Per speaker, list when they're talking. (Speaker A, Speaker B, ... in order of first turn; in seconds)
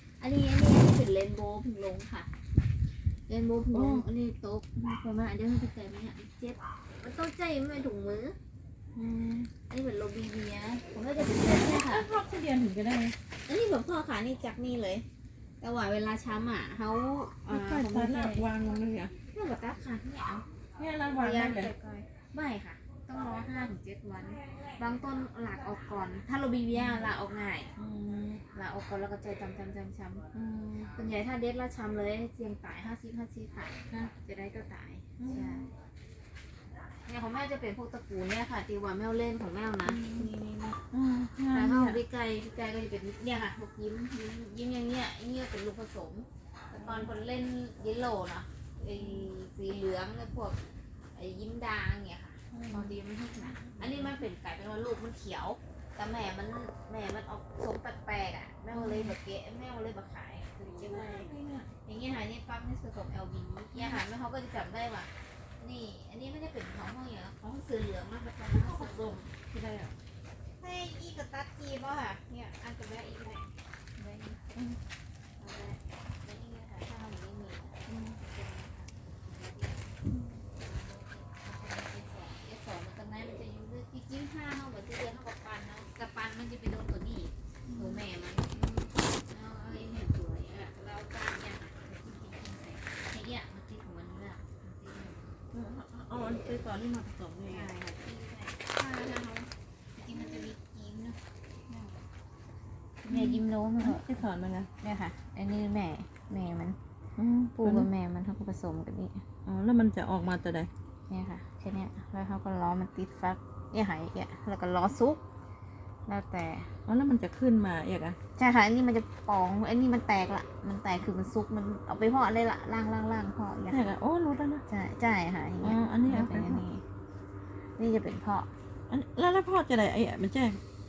Speaker A: 0.2-2.3, 3.3-8.3, 9.7-12.1, 13.5-15.0, 15.6-18.5, 19.3-20.4, 21.1-27.7, 28.5-30.2, 30.9-35.7, 37.1-40.8, 41.5-50.6, 51.1-61.3, 61.9-69.2, 70.6-74.5, 75.4-95.3, 97.5-102.0, 103.1-104.1, 104.8-106.8, 107.5-109.2, 111.1-115.2, 116.1-116.7, 118.4-123.9, 124.7-126.8, 127.8-128.5
Speaker B: 3.7-4.0, 8.9-9.5, 11.3-13.2, 17.5-19.1, 20.8-21.7, 26.7-27.1, 27.8-28.4, 30.3-30.9, 35.2-35.7, 39.8-40.3, 40.9-42.0, 46.7-47.1, 49.0-49.3, 52.5-54.2, 58.7-59.2, 60.7-61.7, 63.7-64.0, 68.5-69.9, 77.9-78.2, 87.7-88.0, 95.5-97.7, 103.1-104.7, 107.2-107.9, 109.5-110.7, 116.9-118.2, 123.7-124.6, 125.6-126.6, 128.9-130.6